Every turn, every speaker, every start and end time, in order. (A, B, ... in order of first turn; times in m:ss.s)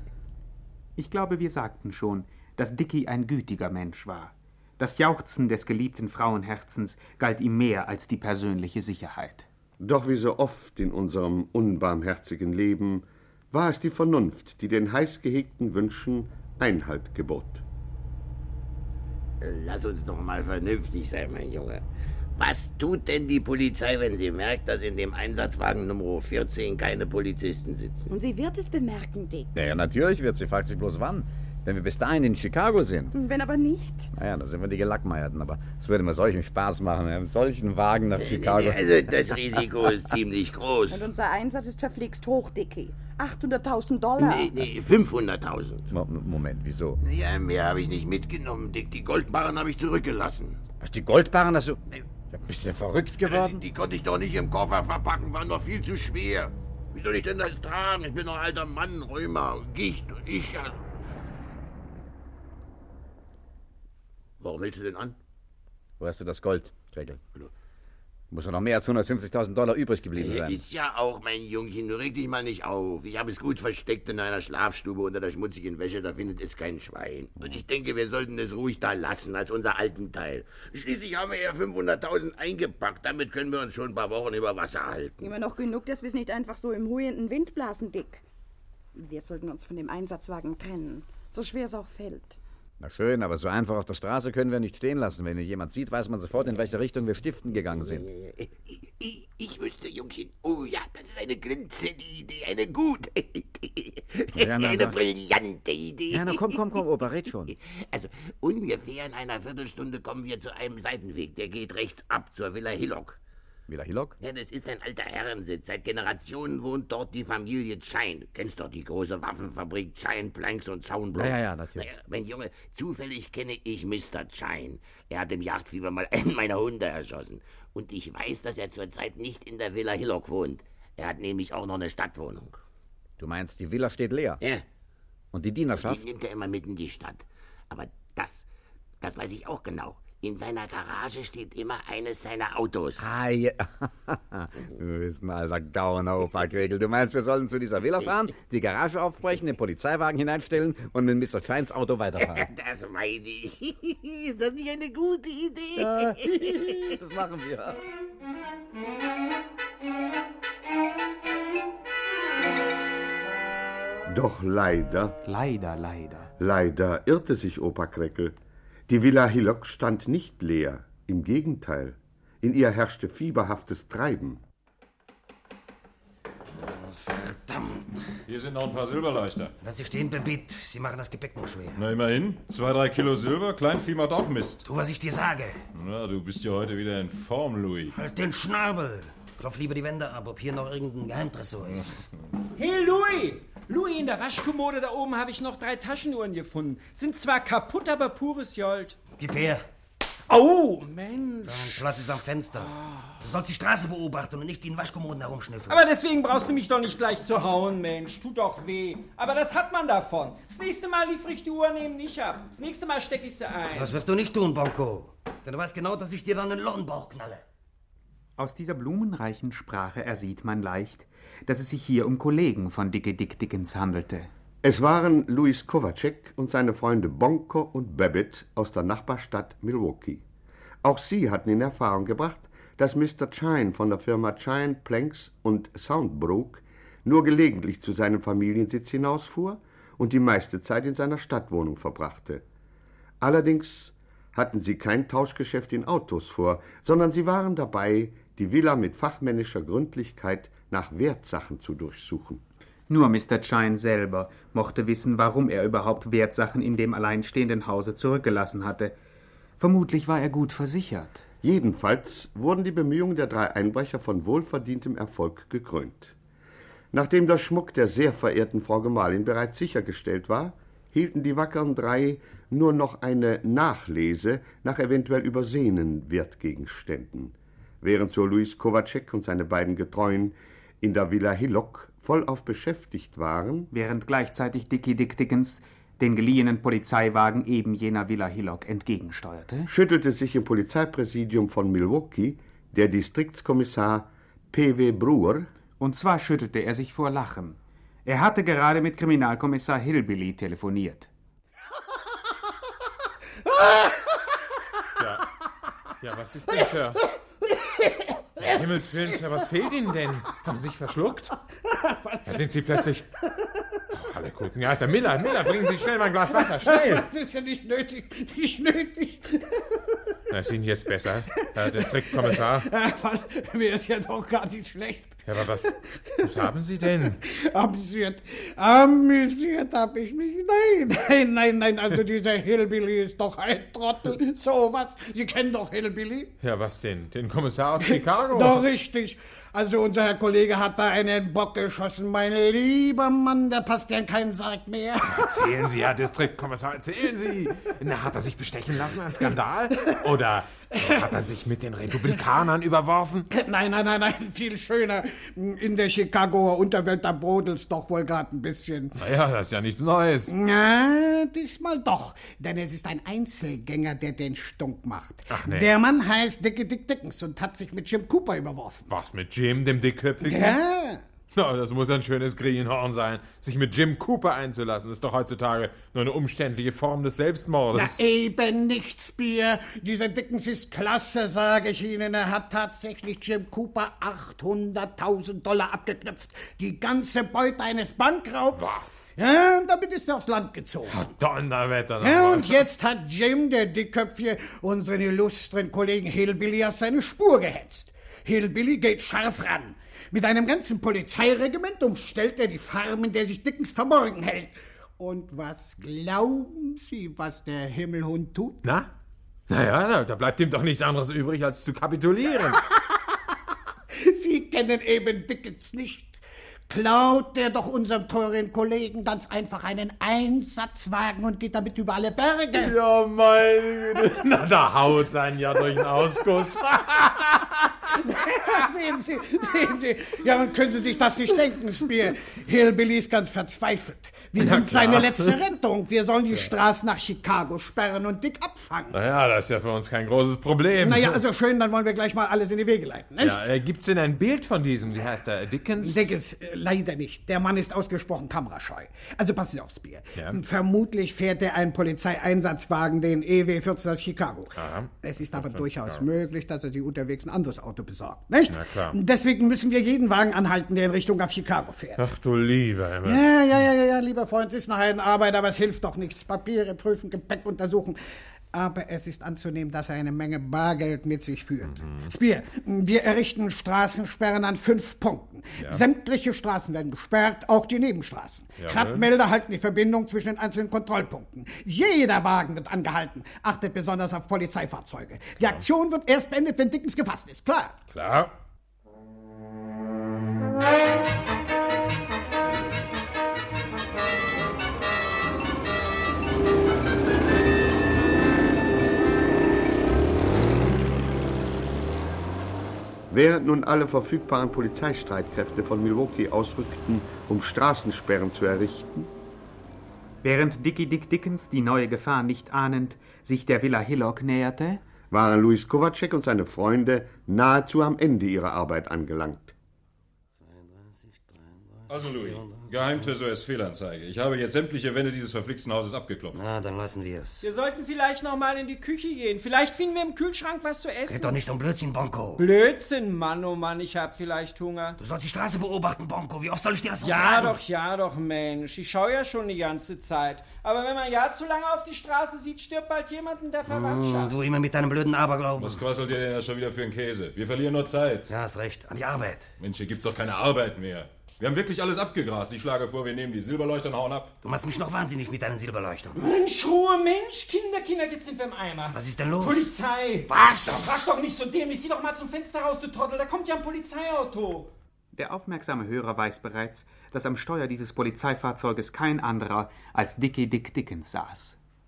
0:01.0-0:09.4 A
0:09.8-0:17.6 B
0:19.4-0:21.8 C
0:22.4-0:28.1 C
0:28.1-0:29.5 D
0:29.5-0:33.2 E
0:33.1-0:34.1 D
0:34.1-0:39.4 E
0:38.2-0:41.0 C
0:40.9-0:44.5 D
0:44.2-0:45.8 C
0:45.9-0:47.0 E
0:47.0-0:50.6 C
0:50.8-0:51.8 E
0:52.3-0:53.6 E
0:53.2-1:00.8 C
1:04.4-1:05.2 C
1:06.0-1:07.2 E
1:08.3-1:10.6 E
1:10.2-1:25.3 C
1:25.2-1:28.2 D
1:28.9-1:32.4 D
1:32.8-1:38.1 E
1:37.9-1:38.5 C
1:39.0-1:53.2 C
1:44.3-1:45.0 E
1:46.1-1:47.5 E
1:53.7-1:54.2 E
1:54.2-2:12.6 C
2:01.1-2:01.9 E
2:13.2-2:14.4 E
2:15.3-2:16.0 E
2:15.8-2:18.4 C
2:19.0-2:23.0 C
2:23.0-2:32.5 E
2:32.2-2:36.9 C
2:35.8-2:37.8 E
2:44.1-2:45.2 B
2:45.2-2:46.3 A
2:46.4-2:48.3 B
2:48.9-2:54.4 B
2:56.5-2:57.9 F
2:58.3-2:59.5 G
2:59.6-3:01.8 F
3:01.8-3:04.6 G
3:04.6-3:05.6 F
3:05.7-3:07.9 G
3:07.9-3:11.9 F
3:12.6-3:19.0 H
3:19.2-3:19.6 F
3:20.3-3:21.9 H
3:21.4-3:22.7 F
3:22.6-3:22.9 H
3:23.2-3:25.8 F
3:25.7-3:34.0 H
3:33.7-3:37.4 F
3:38.4-3:44.3 A
3:44.6-3:50.2 B
3:50.8-4:02.4 B
4:03.2-4:12.4 B
4:12.9-4:18.9 A
4:19.6-4:21.2 A
4:21.4-4:26.1 B
4:26.9-4:43.7 B
4:43.7-4:49.7 A
4:49.7-4:55.5 B
4:55.8-5:01.1 A
5:05.0-5:05.2 I
5:06.0-5:07.0 I
5:08.4-5:11.3 I
5:11.7-5:12.5 J
5:12.3-5:13.0 I
5:13.9-5:17.0 I
5:16.3-5:19.4 J
5:20.3-5:22.7 I
5:21.3-5:25.7 J
5:25.2-5:25.7 I
5:26.2-5:27.2 I
5:27.2-5:36.3 J
5:36.4-5:38.6 I
5:37.8-5:45.3 J
5:45.1-5:53.3 I
5:53.3-5:59.0 J
5:59.0-6:00.3 I
6:00.3-6:08.9 J
6:05.3-6:05.7 I
6:08.9-6:10.6 I
6:10.2-6:11.0 J
6:11.3-6:18.0 I
6:17.7-6:31.0 J
6:28.5-6:29.1 I
6:30.9-6:32.6 I
6:32.0-6:48.6 J
6:48.6-6:48.9 I
6:49.5-6:52.6 I
6:53.9-7:02.7 J
7:02.6-7:08.0 I
7:08.0-7:19.0 J
7:14.4-7:15.4 I
7:18.9-7:21.2 I
7:20.8-7:23.4 J
7:23.2-7:26.1 I
7:25.8-7:42.0 J
7:34.6-7:36.0 I
7:38.5-7:39.0 I
7:42.0-7:43.2 I
7:43.0-7:48.0 J
7:48.5-8:07.8 J
7:51.7-7:52.1 I
7:58.6-7:59.0 I
8:07.9-8:08.3 I
8:23.1-8:29.1 B
8:30.2-8:34.8 A
8:35.1-8:39.5 B
8:40.4-8:43.1 F
8:41.9-8:46.4 G
8:46.3-8:47.4 F
8:47.4-8:51.4 H
8:51.1-8:52.4 F
8:52.4-8:55.0 H
8:55.0-8:57.6 F
8:57.0-9:04.4 H
9:03.7-9:05.8 F
9:05.6-9:08.3 G
9:08.3-9:09.4 F
9:09.6-9:14.4 G
9:14.4-9:16.2 F
9:16.2-9:24.7 H
9:18.9-9:19.7 F
9:20.3-9:21.0 F
9:25.1-9:31.6 A